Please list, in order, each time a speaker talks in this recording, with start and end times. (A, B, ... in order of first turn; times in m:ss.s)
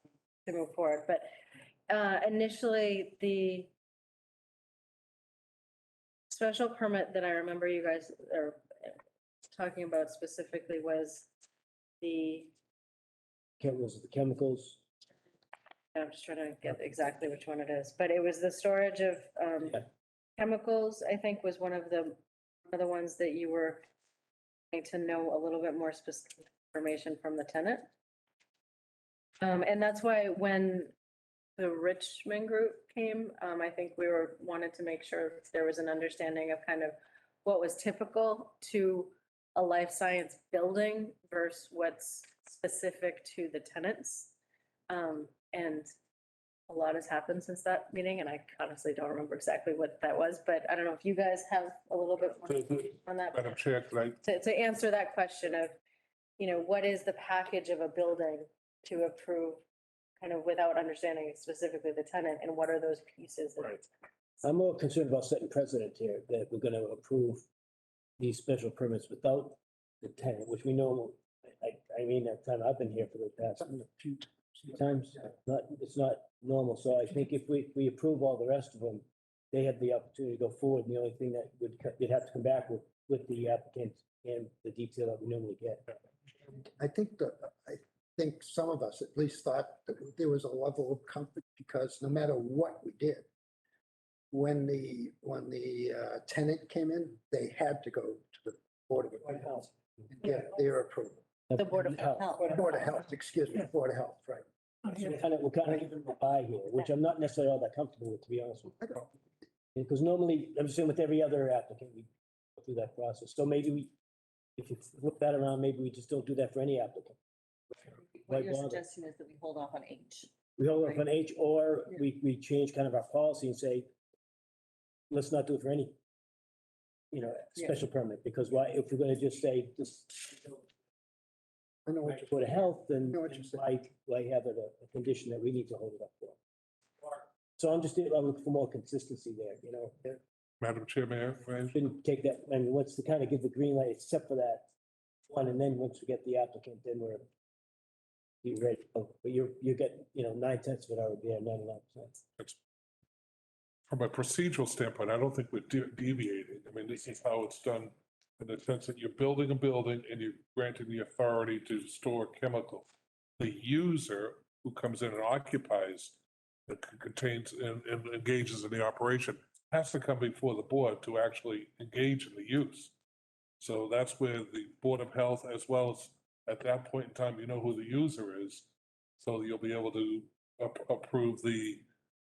0:00.4-0:01.3 A
0:01.9-0:03.7 A
0:06.3-0:09.0 A
0:09.5-0:11.3 A
0:12.0-0:12.5 A
0:13.6-0:14.8 B
0:16.0-0:19.8 A
0:20.4-0:23.8 A
0:24.7-0:27.9 A
0:29.4-0:30.9 A
0:31.6-0:44.3 A
0:44.9-0:45.9 A
0:46.7-0:53.6 A
0:53.3-0:54.2 C
0:54.2-0:55.7 A
0:56.4-0:59.6 A
1:00.2-1:03.9 A
1:04.4-1:07.4 B
1:08.2-1:14.2 B
1:14.7-1:26.0 B
1:26.5-1:33.2 D
1:34.3-1:41.2 D
1:41.5-1:42.3 B
1:41.6-1:42.8 E
1:42.4-1:42.7 A
1:42.5-1:44.4 D
1:44.8-1:49.0 B
1:49.7-1:53.9 B
1:54.6-1:57.2 B
1:57.7-1:58.8 B
1:57.9-2:00.3 E
2:00.6-2:03.9 B
2:05.1-2:06.0 B
2:07.1-2:10.7 B
2:11.8-2:12.4 D
2:12.0-2:16.4 B
2:13.0-2:13.6 D
2:17.0-2:20.2 B
2:20.6-2:21.8 C
2:21.7-2:24.7 B
2:25.3-2:27.3 B
2:28.4-2:32.2 B
2:33.9-2:42.9 C
2:43.4-2:52.9 C
2:53.6-2:58.7 C
2:59.2-3:01.8 C